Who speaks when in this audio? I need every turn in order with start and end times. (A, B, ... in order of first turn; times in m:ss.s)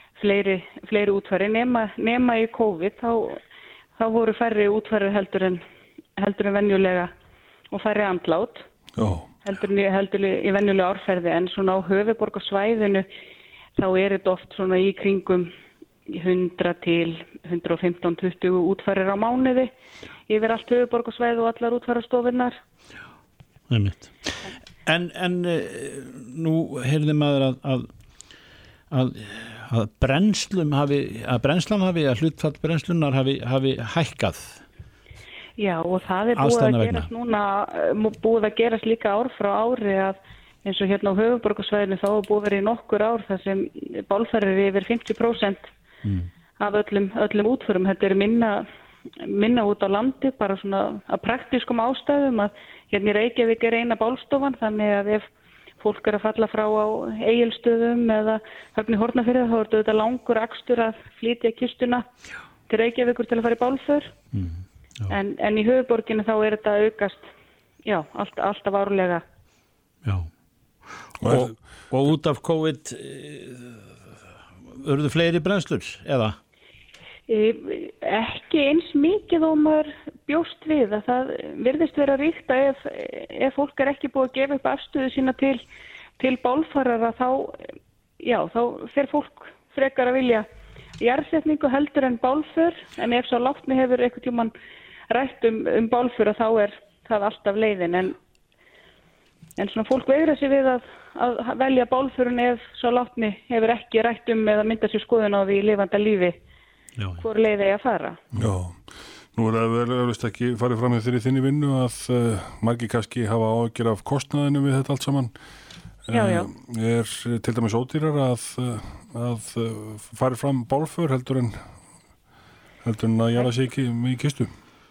0:00.2-0:03.4 A
0:04.0-0:05.6 A
0:06.2-0:07.1 A
0:07.7-0:08.6 A
0:09.0-0:09.3 B
0:09.4-0:13.1 A
0:13.8-0:15.5 A
0:16.1-0:19.7 A
0:20.3-0:22.6 A
0:23.7-0:27.9 C
0:28.9-0:34.6 C
0:35.6-0:45.7 A
0:36.4-0:37.1 C
0:46.0-0:46.3 C
0:46.6-0:48.7 A
0:49.2-0:55.3 A
0:55.8-1:02.1 A
1:02.7-1:04.1 A
1:04.3-1:05.2 C
1:05.1-1:07.3 A
1:07.8-1:09.2 A
1:11.2-1:12.1 B
1:11.2-1:14.0 C
1:14.7-1:16.4 C
1:17.3-1:25.6 A
1:26.2-1:27.6 A
1:28.2-1:30.5 A
1:31.0-1:34.5 A
1:35.1-1:38.2 A
1:39.6-1:46.4 A
1:47.0-1:47.2 C
1:47.2-1:48.2 A
1:48.4-1:55.3 B
1:56.1-2:01.7 B
1:56.1-1:56.5 A
2:02.8-2:04.5 B